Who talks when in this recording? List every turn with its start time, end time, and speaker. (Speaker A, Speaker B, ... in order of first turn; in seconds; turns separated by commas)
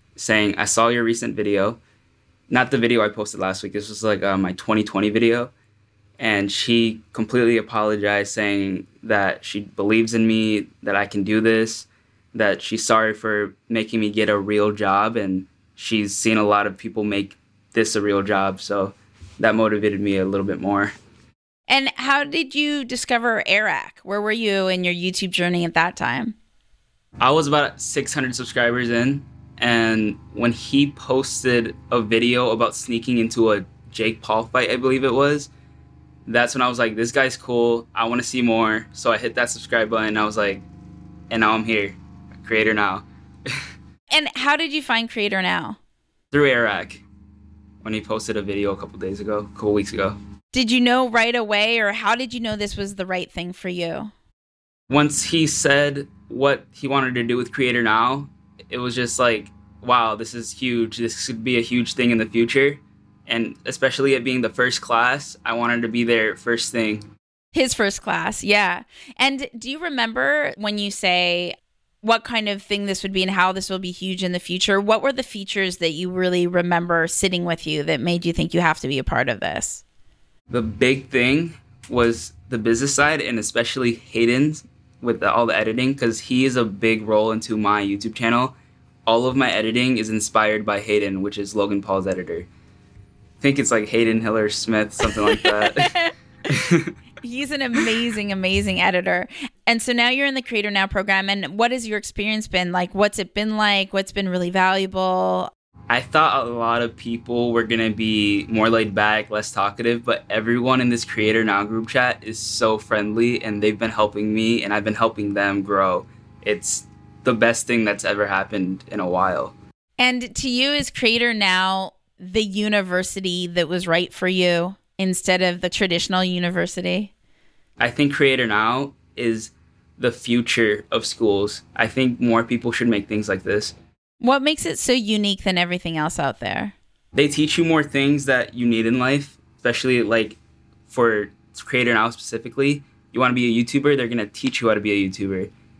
Speaker A: 0.2-1.8, Speaker A: 2.5-5.5, Speaker A: 6.2-20.9, Speaker B: 21.7-26.4, Speaker A: 27.2-35.5, Speaker A: 36.3-40.6, Speaker A: 41.3-43.1, Speaker B: 44.1-45.8, Speaker A: 46.3-47.0, Speaker A: 47.8-50.2, Speaker B: 50.5-54.1, Speaker A: 54.9-67.0, Speaker B: 67.5-79.8, Speaker A: 80.5-92.5, Speaker A: 93.4-95.9, Speaker B: 95.1-96.1, Speaker A: 96.5-96.9, Speaker B: 97.2-105.5, Speaker A: 105.9-119.5, Speaker B: 120.0-127.1, Speaker A: 127.8-133.8, Speaker B: 134.2-136.7, Speaker A: 137.2-145.5